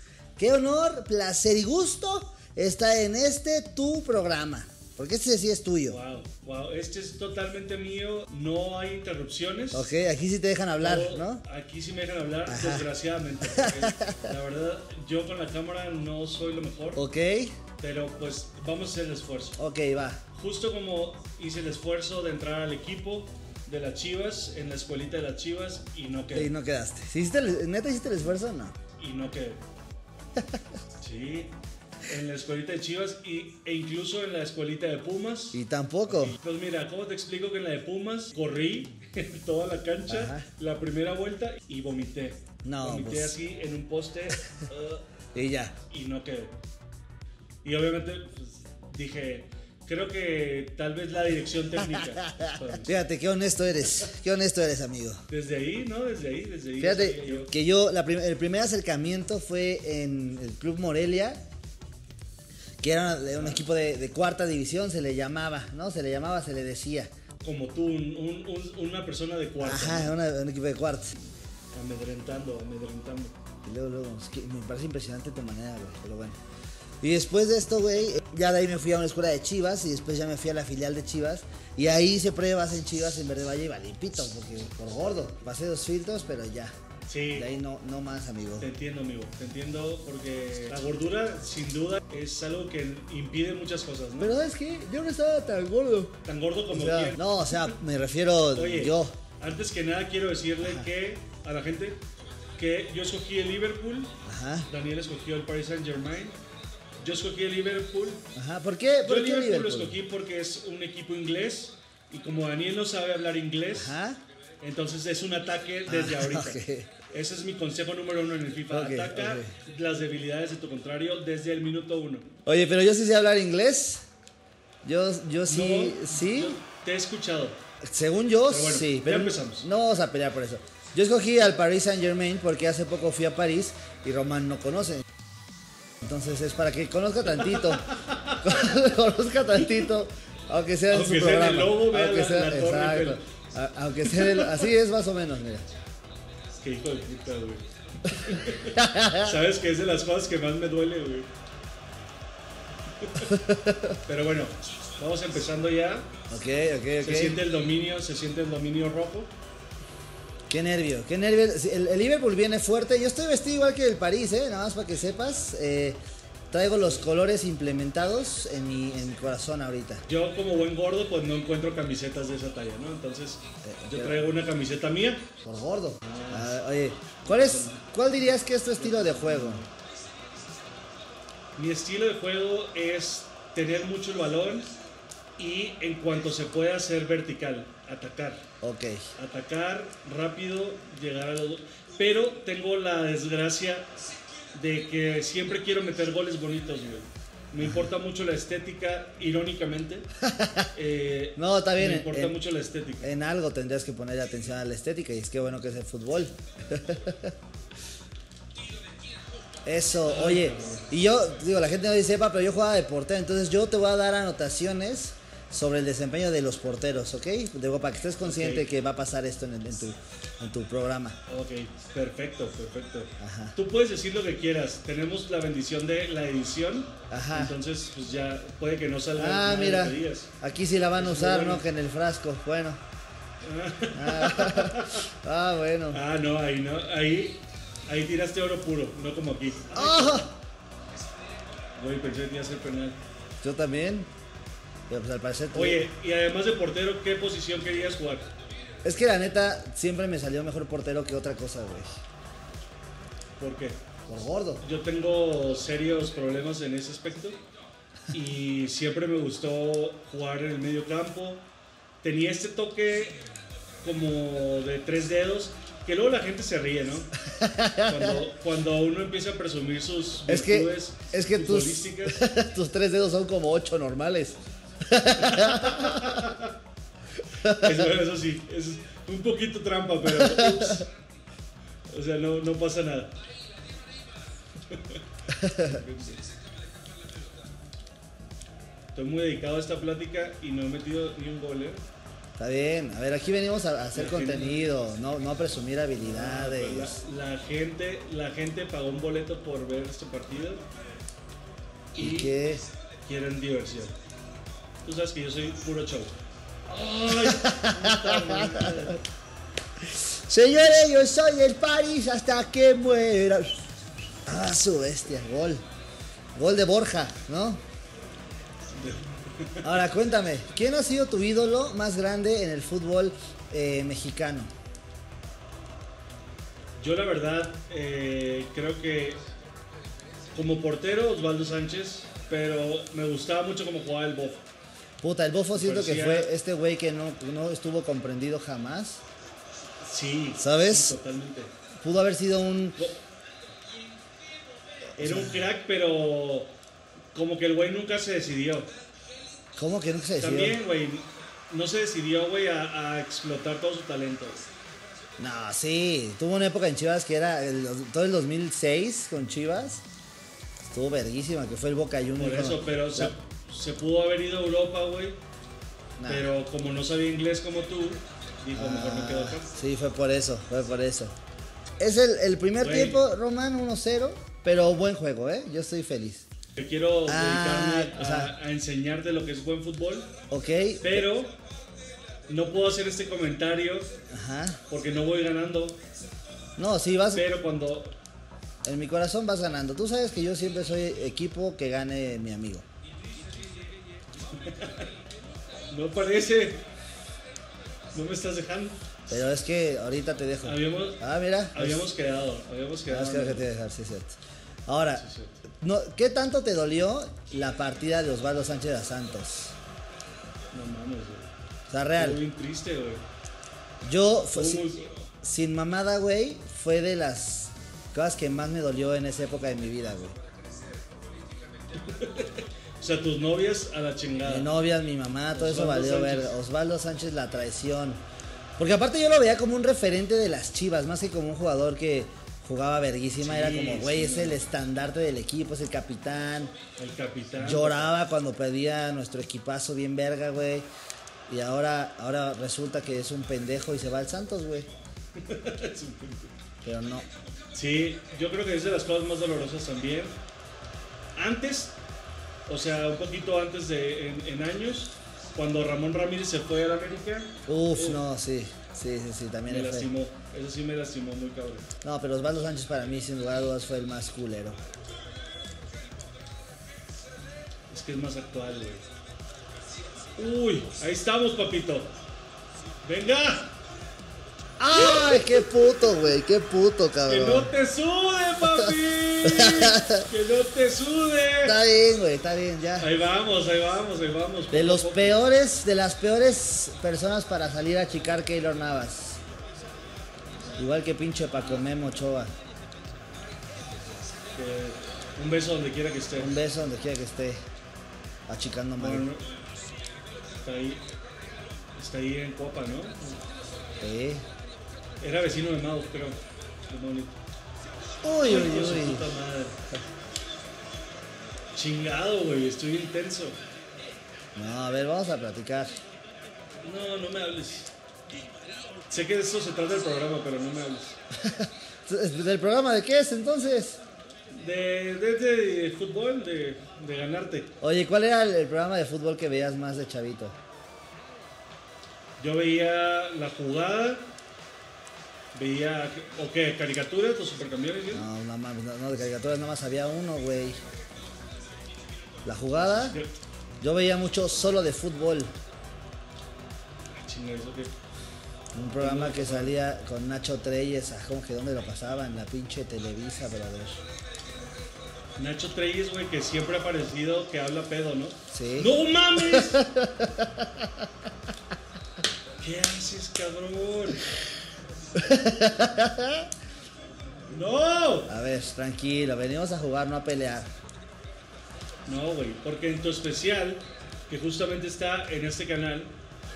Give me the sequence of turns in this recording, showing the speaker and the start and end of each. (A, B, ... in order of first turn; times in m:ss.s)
0:00.4-0:06.0 A
0:05.9-0:09.9 B
0:09.7-0:11.4 A
0:10.8-0:17.0 B
0:12.5-0:12.9 A
0:13.4-0:14.3 A
0:17.0-0:17.5 A
0:17.8-0:19.6 B
0:19.6-0:20.2 A
0:20.3-0:26.5 B
0:26.3-0:28.7 A
0:29.0-0:29.6 B
0:31.0-0:31.5 B
0:32.1-0:45.0 B
0:35.5-0:36.4 A
0:40.1-0:40.5 A
0:42.6-0:43.3 A
0:45.3-0:45.7 A
0:45.9-0:46.5 B
0:47.6-0:53.0 B
0:51.9-0:55.2 A
0:55.3-0:57.5 B
0:56.8-1:01.4 A
1:02.8-1:07.1 A
1:03.3-1:03.6 B
1:07.4-1:10.1 B
1:09.6-1:11.1 A
1:11.7-1:13.3 B
1:13.6-1:16.4 A
1:17.0-1:26.7 A
1:27.1-1:27.5 B
1:27.3-1:28.7 A
1:28.6-1:34.3 B
1:34.2-1:36.1 A
1:36.2-1:37.8 B
1:36.7-1:39.2 A
1:38.5-1:42.0 B
1:40.6-1:40.9 A
1:42.6-1:44.1 B
1:44.2-1:44.7 A
1:44.7-1:46.4 B
1:47.0-1:48.2 B
1:48.3-1:50.0 A
1:49.0-1:54.0 B
1:53.8-1:54.2 A
1:54.6-1:56.6 B
1:55.8-1:56.9 A
1:57.1-2:02.3 B
1:58.7-1:59.5 A
2:02.4-2:04.0 A
2:04.8-2:06.6 A
2:05.4-2:07.6 B
2:07.8-2:15.0 A
2:08.5-2:09.7 B
2:16.0-2:25.6 A
2:17.5-2:18.6 B
2:20.9-2:23.2 B
2:24.1-2:24.6 B
2:26.6-2:31.3 B
2:28.7-2:29.3 A
2:33.0-2:33.4 B
2:33.3-2:34.0 A
2:34.1-2:36.1 B
2:36.3-2:37.4 A
2:37.0-2:39.3 B
2:40.5-2:46.0 A
2:46.5-2:50.0 A
2:50.1-2:55.3 B
2:53.6-2:54.2 A
2:55.4-2:59.6 A
2:56.0-2:56.6 B
2:57.2-2:57.8 B
2:58.7-2:59.7 B
3:01.5-3:04.7 B
3:05.4-3:08.4 B
3:08.6-3:09.1 A
3:09.2-3:13.9 B
3:14.5-3:20.1 B
3:17.6-3:17.9 A
3:20.2-3:20.7 A
3:20.7-3:23.1 B
3:21.4-3:22.3 A
3:23.0-3:27.3 A
3:29.6-3:41.2 A
3:30.0-3:30.9 B
3:38.2-3:38.7 B
3:41.3-3:50.3 B
3:43.2-3:43.6 A
3:47.1-3:47.6 A
3:49.2-3:52.8 A
3:50.9-3:51.6 B
3:53.4-3:55.0 B
3:53.9-3:56.0 A
3:55.9-4:00.3 B
3:59.7-4:00.3 A
4:01.8-4:03.0 B
4:03.4-4:04.1 A
4:04.9-4:05.9 A
4:05.5-4:08.3 B
4:08.8-4:12.0 A
4:13.4-4:13.8 B
4:14.1-4:14.6 A
4:14.6-4:17.4 B
4:18.1-4:21.4 B
4:22.0-4:23.3 B
4:23.8-4:27.1 B
4:27.2-4:28.2 A
4:27.8-4:32.2 B
4:30.3-4:36.1 A
4:35.2-4:36.5 B
4:37.4-4:37.9 A
4:37.4-4:40.9 B
4:40.1-4:40.8 A
4:41.9-4:43.1 B
4:44.7-4:45.0 B
4:45.4-4:45.8 A
4:45.6-4:46.2 B
4:48.9-4:51.8 B
4:52.4-4:57.0 A
4:53.9-4:54.7 B
4:56.0-5:00.6 B
5:01.9-5:02.3 B
5:02.0-5:02.6 A
5:03.0-5:03.9 B
5:04.8-5:06.1 B
5:06.7-5:09.0 B
5:07.1-5:09.0 A
5:09.8-5:13.6 A
5:14.2-5:15.6 A
5:16.4-5:17.6 A
5:18.7-5:19.7 B
5:19.6-5:24.5 A
5:26.8-5:29.2 B
5:30.3-5:34.4 B
5:35.0-5:39.0 A
5:35.5-5:36.3 B
5:39.8-5:41.5 B
5:40.4-5:40.9 A
5:41.8-5:42.8 A
5:45.0-5:45.5 A
5:45.0-5:46.5 B
5:47.1-5:48.7 B
5:49.5-5:50.6 A
5:50.2-5:54.4 B
5:55.2-5:59.8 A
6:00.7-6:03.1 A
6:02.2-6:05.2 B
6:06.0-6:06.3 A
6:06.1-6:09.5 B
6:08.5-6:11.1 A
6:11.8-6:16.2 A
6:12.6-6:13.0 B
6:16.6-6:20.1 B
6:17.1-6:18.3 A
6:20.3-6:21.0 A
6:20.8-6:21.4 B
6:22.3-6:23.9 B
6:24.1-6:24.6 A
6:24.7-6:25.8 B
6:26.6-6:27.2 A
6:27.1-6:27.9 B
6:28.6-6:32.6 A
6:34.2-6:34.9 B
6:35.7-6:36.6 B
6:37.9-6:38.8 B
6:39.1-6:41.9 A
6:40.4-6:43.5 B
6:42.9-6:45.0 A
6:45.0-6:45.4 B
6:45.6-6:49.5 A
6:50.5-6:51.3 B
6:51.7-6:52.2 A
6:51.9-6:53.0 B
6:53.8-6:54.6 A
6:54.3-6:55.0 B
6:55.2-7:00.1 A
7:01.8-7:04.5 B
7:04.2-7:08.0 A
7:05.3-7:06.3 B
7:08.6-7:16.5 A
7:13.2-7:14.4 B
7:16.8-7:17.9 B
7:17.4-7:20.7 A
7:21.3-7:24.7 A
7:25.2-7:26.3 B
7:26.6-7:27.1 A
7:27.5-7:30.2 B
7:31.2-7:31.7 B
7:32.5-7:38.0 B
7:37.5-7:39.9 A
7:39.5-7:41.7 B
7:41.8-7:44.6 A
7:47.7-7:48.8 B
7:50.2-7:51.9 B
7:52.8-7:53.5 B
7:54.6-7:57.5 A
7:54.9-7:55.4 B
7:57.0-8:01.6 B
7:59.2-8:00.0 A
8:01.4-8:02.9 A
8:02.8-8:05.2 B
8:04.5-8:09.2 A
8:10.6-8:12.3 A
8:14.3-8:16.3 B
8:16.2-8:17.4 A
8:18.3-8:19.0 A
8:18.8-8:19.3 B
8:20.4-8:20.8 B
8:21.8-8:23.2 B
8:23.8-8:24.2 A
8:25.0-8:27.1 B
8:28.0-8:29.1 A
8:28.2-8:29.5 B
8:31.5-8:33.4 B
8:34.3-8:35.8 A
8:36.6-8:37.7 B
8:38.9-8:41.0 B
8:41.2-8:43.8 A
8:44.3-8:47.5 B
8:47.6-8:50.3 A
8:52.2-8:54.0 B
8:55.3-8:58.1 B
8:57.9-9:00.6 A
9:02.2-9:03.0 A
9:02.7-9:03.1 B
9:03.6-9:05.3 A
9:06.9-9:07.7 B
9:08.5-9:13.8 A
9:08.8-9:09.5 B
9:15.2-9:19.6 B
9:18.3-9:18.7 A
9:19.2-9:20.8 A
9:22.4-9:24.1 B
9:25.0-9:26.3 A
9:27.3-9:28.1 B
9:28.1-9:30.5 A
9:31.8-9:35.9 B